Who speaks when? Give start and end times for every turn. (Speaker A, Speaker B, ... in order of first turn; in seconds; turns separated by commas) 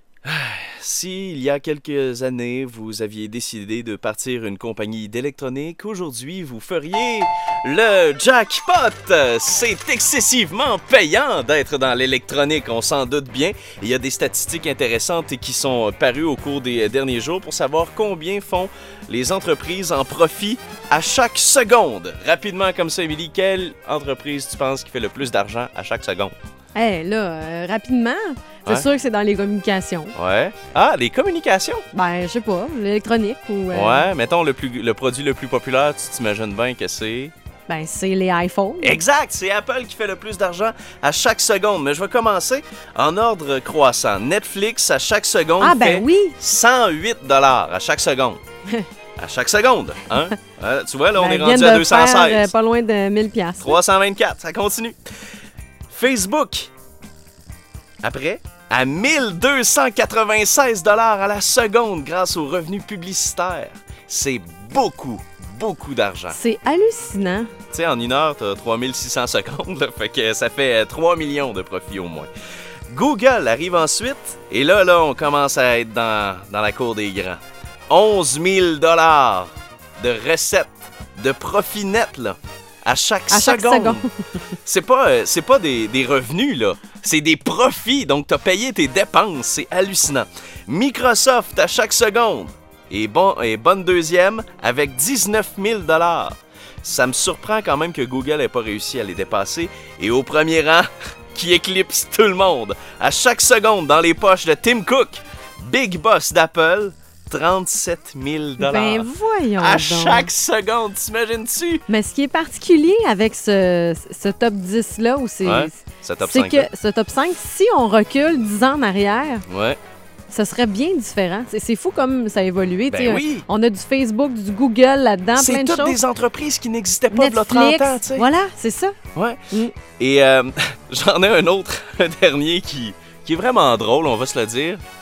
Speaker A: 0.2-26.3, Speaker B: 26.7-30.1, Speaker A: 30.1-31.8, Speaker B: 31.9-34.0, Speaker A: 33.7-37.3, Speaker B: 37.7-39.0, Speaker A: 38.8-48.4, Speaker B: 45.6-46.4, Speaker A: 49.2-52.5, Speaker B: 51.1-53.8, Speaker A: 53.6-55.0, Speaker A: 55.9-56.7, Speaker A: 58.0-66.4, Speaker B: 66.3-67.5, Speaker A: 67.7-72.3, Speaker A: 72.9-84.0, Speaker B: 83.3-84.1, Speaker A: 84.6-111.8, Speaker B: 108.6-110.3, Speaker B: 111.9-119.4, Speaker A: 115.4-116.7, Speaker A: 119.5-119.8, Speaker B: 120.3-126.0, Speaker A: 122.9-123.5, Speaker A: 125.4-128.3, Speaker B: 127.1-128.9, Speaker A: 129.1-134.8